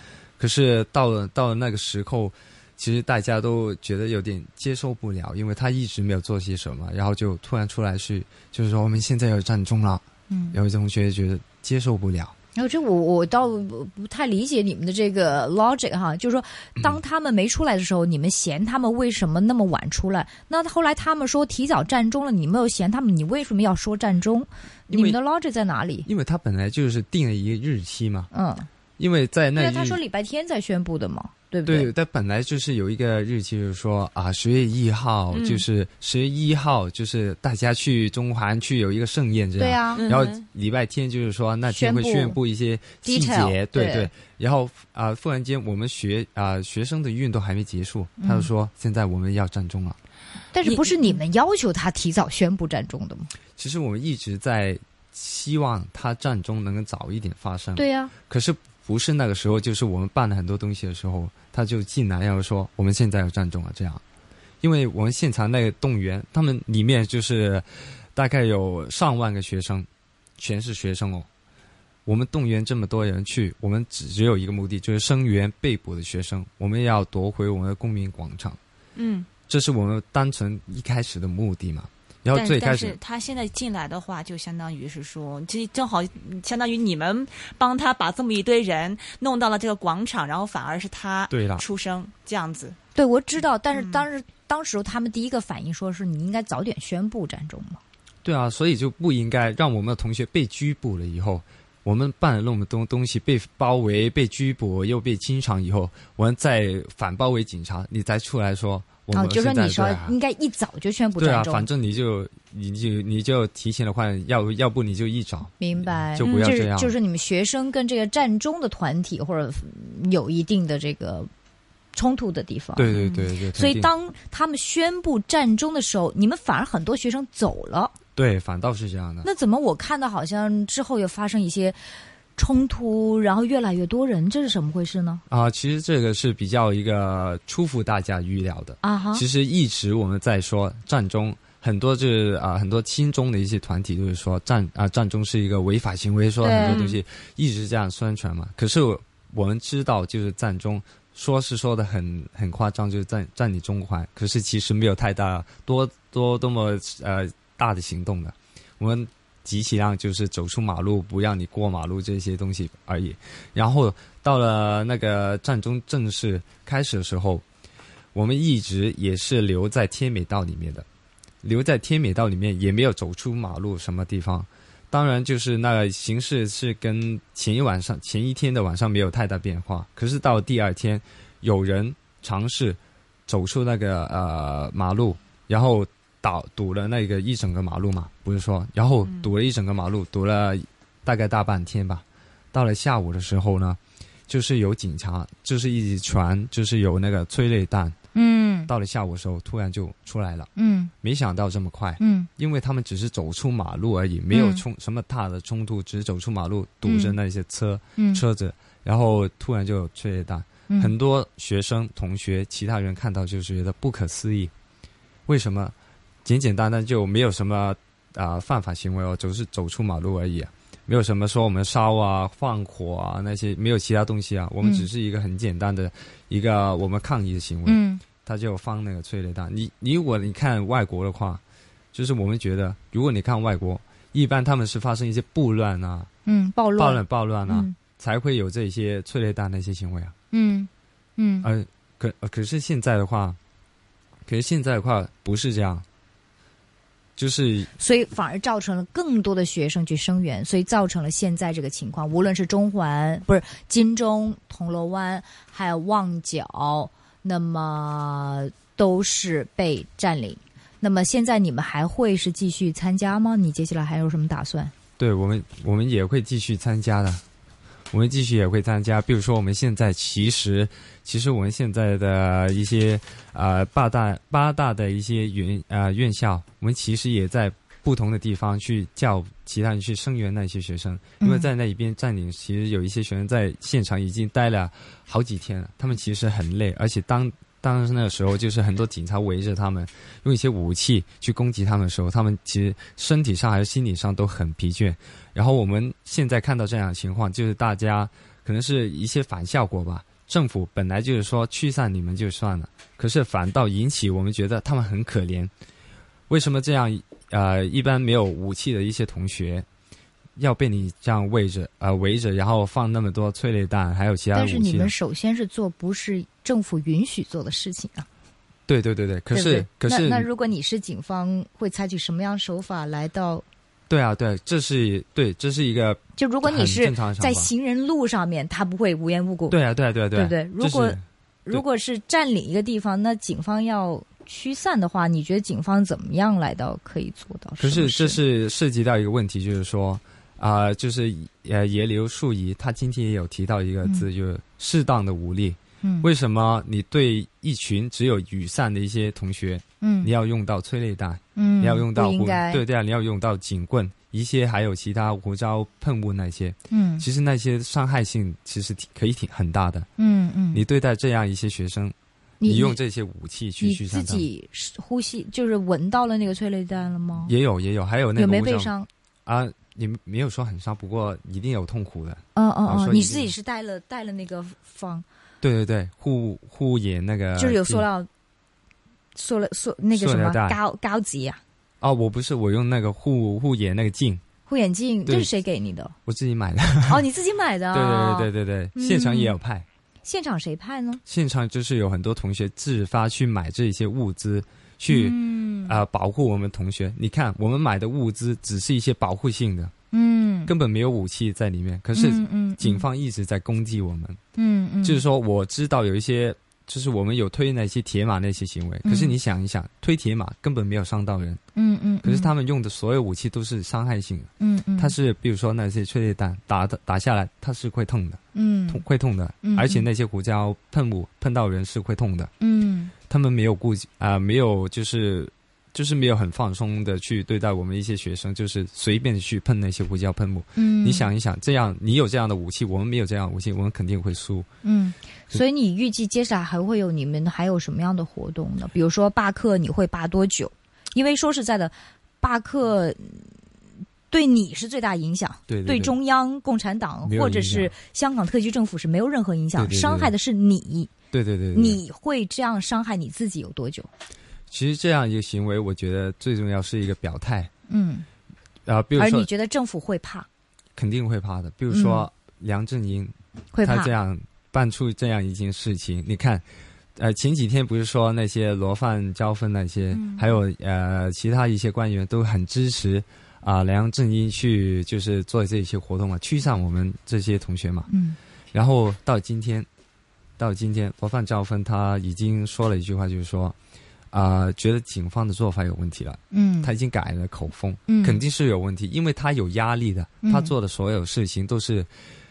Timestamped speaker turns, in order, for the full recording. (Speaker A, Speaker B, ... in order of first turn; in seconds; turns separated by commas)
Speaker A: 0.4-12.3, Speaker B: 10.3-10.6, Speaker B: 12.6-26.1, Speaker A: 24.9-25.2, Speaker A: 26.1-28.3, Speaker B: 28.3-28.7, Speaker A: 29.0-30.0, Speaker B: 29.6-31.9, Speaker A: 31.6-50.0, Speaker C: 35.3-35.6, Speaker B: 39.6-40.1, Speaker C: 40.0-40.4, Speaker B: 41.7-42.4, Speaker B: 43.0-44.1, Speaker B: 48.2-48.5, Speaker B: 50.5-53.3, Speaker C: 50.6-51.1, Speaker A: 53.6-64.0, Speaker B: 57.8-58.1, Speaker A: 64.6-69.9, Speaker A: 70.4-71.3, Speaker A: 72.0-78.6, Speaker C: 79.0-79.3, Speaker A: 79.5-83.0, Speaker C: 82.3-92.8, Speaker A: 91.3-91.6, Speaker B: 92.9-97.8, Speaker C: 93.7-94.1, Speaker A: 98.2-110.2, Speaker B: 109.1-111.7, Speaker A: 111.2-116.9, Speaker B: 115.6-121.3, Speaker C: 116.2-116.6, Speaker B: 121.9-123.0, Speaker A: 122.8-123.9, Speaker B: 123.5-127.9, Speaker A: 128.2-129.3, Speaker B: 129.2-131.8, Speaker B: 132.3-135.2, Speaker A: 135.3-167.4, Speaker B: 138.8-139.2, Speaker B: 146.4-146.8, Speaker C: 146.5-147.0, Speaker A: 168.1-170.8, Speaker A: 171.4-197.9, Speaker B: 198.1-198.7, Speaker A: 198.7-200.5, Speaker B: 200.6-200.9, Speaker A: 201.0-214.5, Speaker B: 202.0-202.3, Speaker B: 204.3-204.6, Speaker B: 206.8-207.2, Speaker B: 208.0-208.2, Speaker A: 215.3-231.4, Speaker B: 224.6-224.9, Speaker B: 227.7-228.0, Speaker A: 231.9-236.1, Speaker B: 236.2-237.8, Speaker A: 236.8-240.1, Speaker B: 240.3-241.5, Speaker A: 241.4-243.4, Speaker A: 244.3-245.8, Speaker A: 247.2-247.7, Speaker B: 247.8-264.7, Speaker A: 265.0-267.2, Speaker A: 267.9-305.5, Speaker B: 281.2-281.5, Speaker A: 306.3-309.6, Speaker A: 310.4-314.9, Speaker B: 314.3-318.1, Speaker A: 318.7-320.3, Speaker B: 319.3-323.4, Speaker A: 323.9-327.5, Speaker B: 326.1-329.6, Speaker A: 329.5-331.6, Speaker B: 330.1-338.2, Speaker A: 337.6-359.9, Speaker B: 345.8-346.1, Speaker B: 349.8-350.1, Speaker B: 351.4-352.6, Speaker B: 356.7-357.1, Speaker B: 360.0-360.6, Speaker A: 360.5-364.3, Speaker B: 362.4-362.8, Speaker B: 363.6-367.3, Speaker A: 367.2-368.7, Speaker B: 368.1-368.9, Speaker A: 369.2-373.3, Speaker B: 372.3-375.0, Speaker A: 375.4-377.9, Speaker B: 377.4-378.1, Speaker B: 379.1-381.4, Speaker A: 379.9-380.6, Speaker A: 381.8-384.2, Speaker B: 384.5-385.9, Speaker A: 386.1-387.0, Speaker B: 386.9-389.4, Speaker A: 387.7-389.7, Speaker B: 390.0-391.0, Speaker A: 391.1-399.7, Speaker B: 394.9-395.8, Speaker B: 399.9-400.5, Speaker A: 400.5-404.2, Speaker B: 401.9-402.9, Speaker B: 404.4-405.0, Speaker A: 404.8-411.4, Speaker B: 408.8-409.2, Speaker B: 411.5-412.3, Speaker A: 412.0-422.3, Speaker B: 414.4-414.9, Speaker B: 418.3-418.8, Speaker B: 419.4-419.9, Speaker B: 422.4-422.9, Speaker A: 423.1-434.5, Speaker B: 430.6-431.1, Speaker B: 434.6-443.3, Speaker B: 444.1-450.9, Speaker A: 445.5-445.9, Speaker A: 447.0-447.7, Speaker A: 449.6-450.1, Speaker A: 451.1-451.8, Speaker B: 451.5-453.9, Speaker A: 454.5-457.5, Speaker B: 457.7-458.1, Speaker A: 458.6-459.3, Speaker B: 458.9-460.3, Speaker A: 460.8-466.4, Speaker B: 461.7-462.1, Speaker B: 463.5-463.9, Speaker A: 467.0-477.9, Speaker B: 469.9-470.3, Speaker B: 477.9-478.2, Speaker A: 478.5-479.7, Speaker A: 480.4-483.5, Speaker A: 484.1-491.9, Speaker B: 486.3-486.7, Speaker B: 487.9-488.2, Speaker B: 490.2-490.5